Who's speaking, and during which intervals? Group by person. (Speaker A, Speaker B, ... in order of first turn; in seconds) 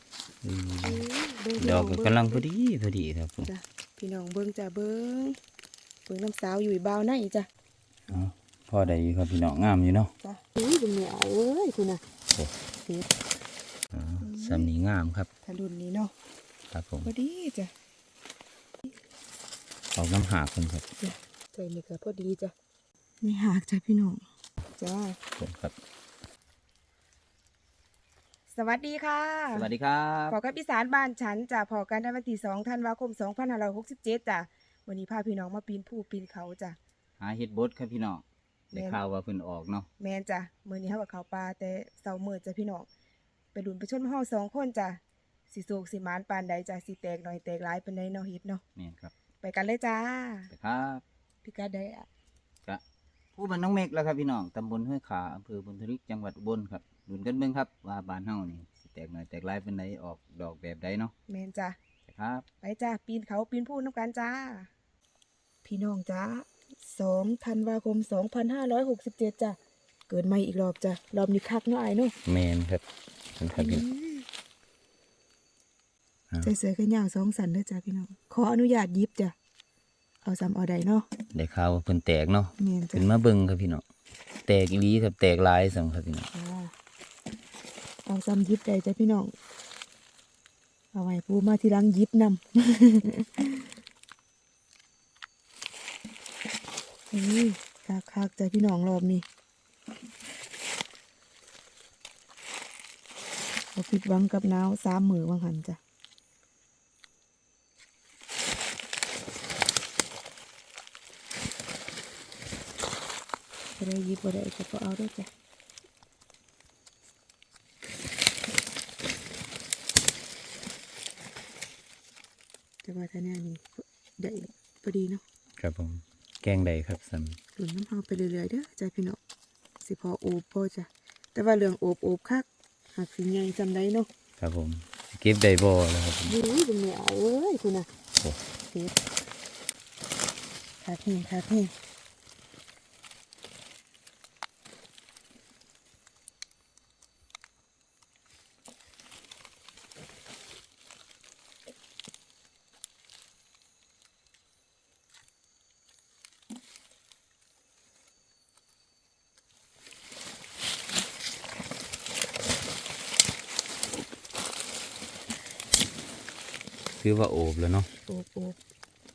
Speaker A: 0.4-1.1, 1.6-3.5, 8.1-10.1, 13.9-15.3, 16.7-17.1, 19.9-20.9, 25.4-25.7, 29.5-30.4, 37.2-39.9, 48.8-49.1, 50.5-51.0, 53.3-61.1, 62.0-62.5, 72.2-72.8, 73.3-73.8, 81.3-83.8, 84.5-86.3, 125.6-127.4, 134.4-136.3, 167.0-167.9
Speaker B: 0.8-2.5, 3.4-5.4, 6.1-7.5, 10.2-12.0, 12.8-13.1, 14.2-14.7, 15.4-16.1, 17.0-17.7, 21.0-22.5, 23.2-24.2, 24.8-25.2, 28.5-29.7, 30.3-36.8, 38.7-39.0, 40.0-42.9, 43.5-45.0, 45.5-48.6, 49.4-50.5, 51.4-52.1, 61.3-61.8, 62.6-64.7, 65.6-69.6, 70.1-72.1, 73.5-74.3, 76.4-79.3, 80.2-81.1, 82.6-83.0, 86.3-86.7, 88.0-89.3, 90.9-93.7, 97.1-99.2, 103.7-105.8, 113.8-115.3, 122.8-125.2, 127.6-129.2, 129.8-134.1, 136.2-137.9, 140.8-141.7, 168.1-168.6